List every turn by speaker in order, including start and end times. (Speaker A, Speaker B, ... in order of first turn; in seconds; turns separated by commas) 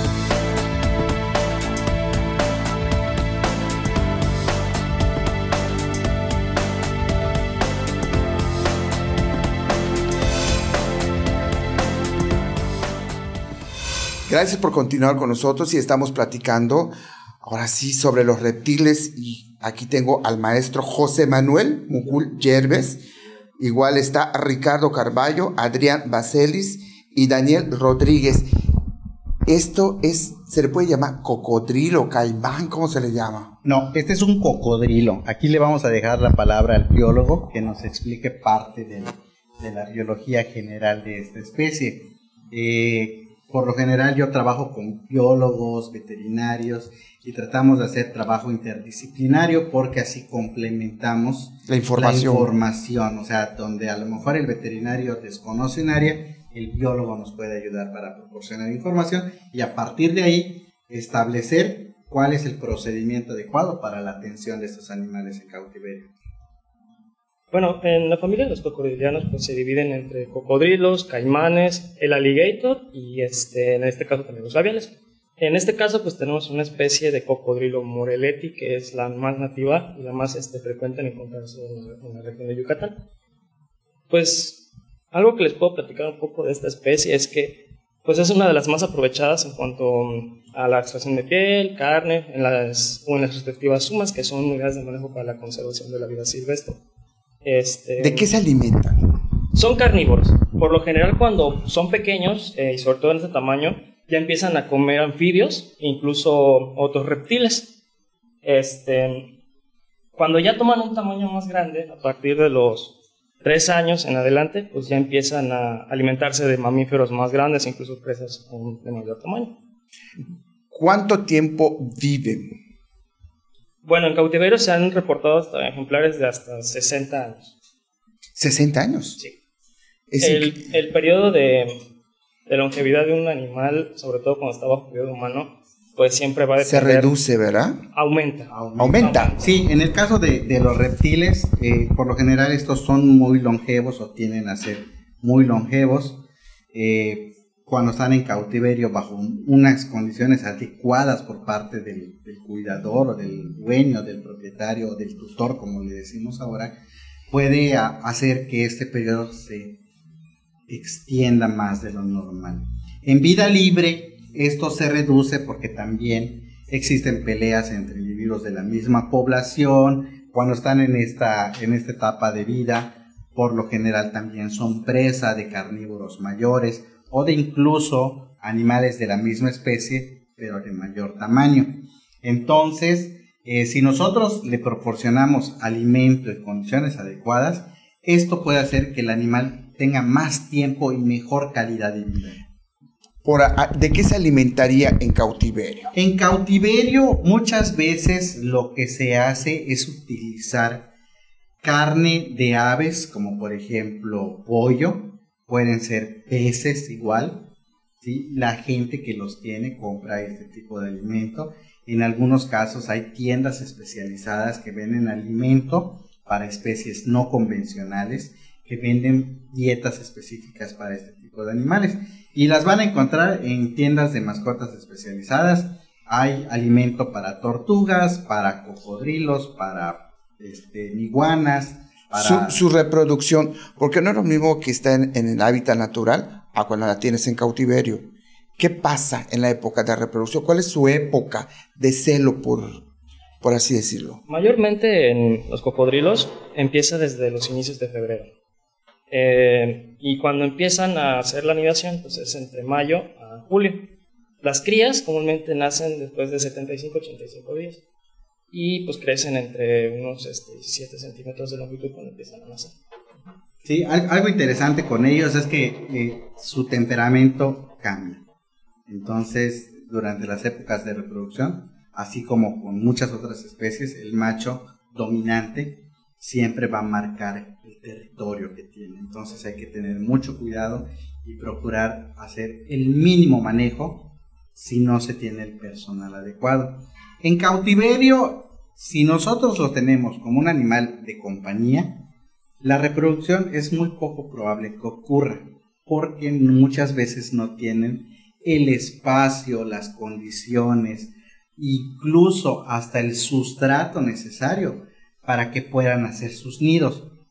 Speaker A: 14.3-23.0, Speaker A: 23.6-28.5, Speaker A: 29.4-33.5, Speaker B: 33.6-66.1, Speaker A: 51.7-52.5, Speaker C: 67.5-82.9, Speaker C: 84.1-84.6, Speaker C: 85.1-96.8, Speaker C: 97.4-98.3, Speaker A: 98.0-99.0, Speaker C: 99.5-107.7, Speaker C: 108.4-109.3, Speaker C: 110.1-119.5, Speaker A: 120.7-122.5, Speaker C: 123.8-127.5, Speaker A: 128.3-129.2, Speaker A: 130.1-130.6, Speaker C: 130.2-131.8, Speaker C: 132.5-137.1, Speaker A: 136.6-137.8, Speaker C: 137.9-139.4, Speaker B: 138.5-146.2, Speaker A: 138.8-139.3, Speaker B: 146.7-156.7, Speaker B: 157.3-159.7, Speaker B: 160.7-181.7, Speaker B: 182.2-192.4, Speaker A: 193.2-195.9, Speaker B: 195.9-200.8, Speaker B: 201.6-207.4, Speaker B: 208.0-232.6, Speaker A: 232.1-238.0, Speaker A: 238.6-242.8, Speaker A: 243.4-244.2, Speaker C: 244.3-248.3, Speaker C: 249.1-253.8, Speaker C: 254.4-257.8, Speaker C: 258.5-262.7, Speaker B: 263.6-268.2, Speaker B: 268.9-284.0, Speaker B: 284.5-291.9, Speaker B: 292.6-307.1